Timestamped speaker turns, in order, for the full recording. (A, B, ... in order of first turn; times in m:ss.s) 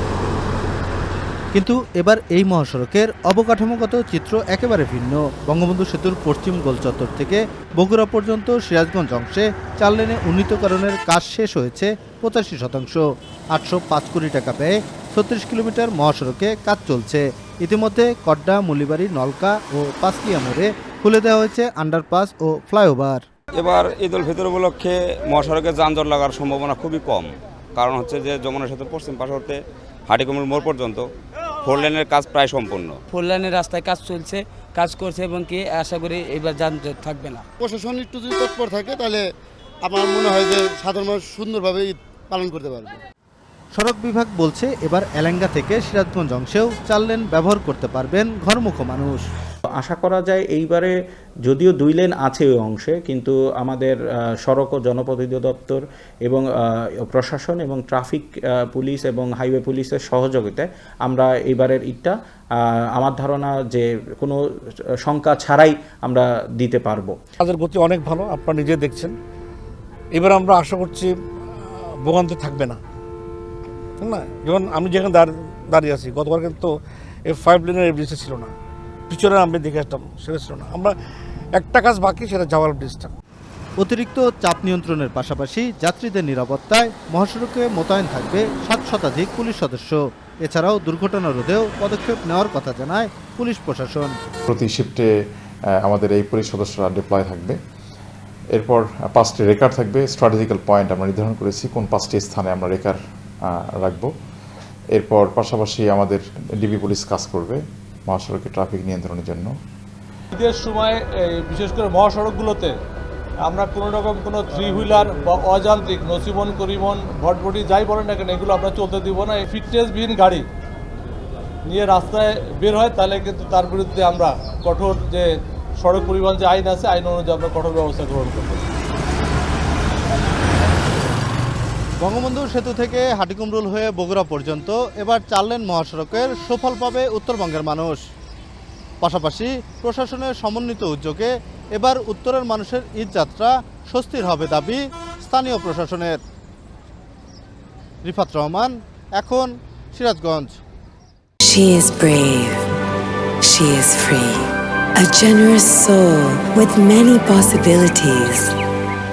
0:01.5-0:23.2 A
0:23.5-0:31.1 B
0:31.6-0:33.0 B
0:33.1-0:37.4 C
0:37.6-0:39.2 D
0:39.8-0:43.0 D
0:43.8-0:49.2 A
0:49.8-0:50.9 E
0:51.4-0:56.4 E
0:57.0-1:04.4 E
1:05.0-1:07.1 E
1:07.4-1:09.1 F
1:10.1-1:11.1 F
1:11.6-1:12.8 F
1:14.0-1:16.7 F
1:17.3-1:18.5 F
1:19.1-1:20.9 F
1:21.6-1:23.1 F
1:23.8-1:34.1 A
1:34.5-1:35.1 G
1:35.8-1:37.6 G
1:38.5-1:44.1 G
1:44.9-1:49.5 G
1:50.3-1:52.7 H
1:53.4-2:00.4 H
2:01.7-2:05.3 H
2:05.8-2:08.6 H
2:12.0-2:18.0 A
2:19.0-2:26.2 A
2:28.0-2:30.6 A
2:31.4-2:32.7 I
2:33.4-2:38.6 I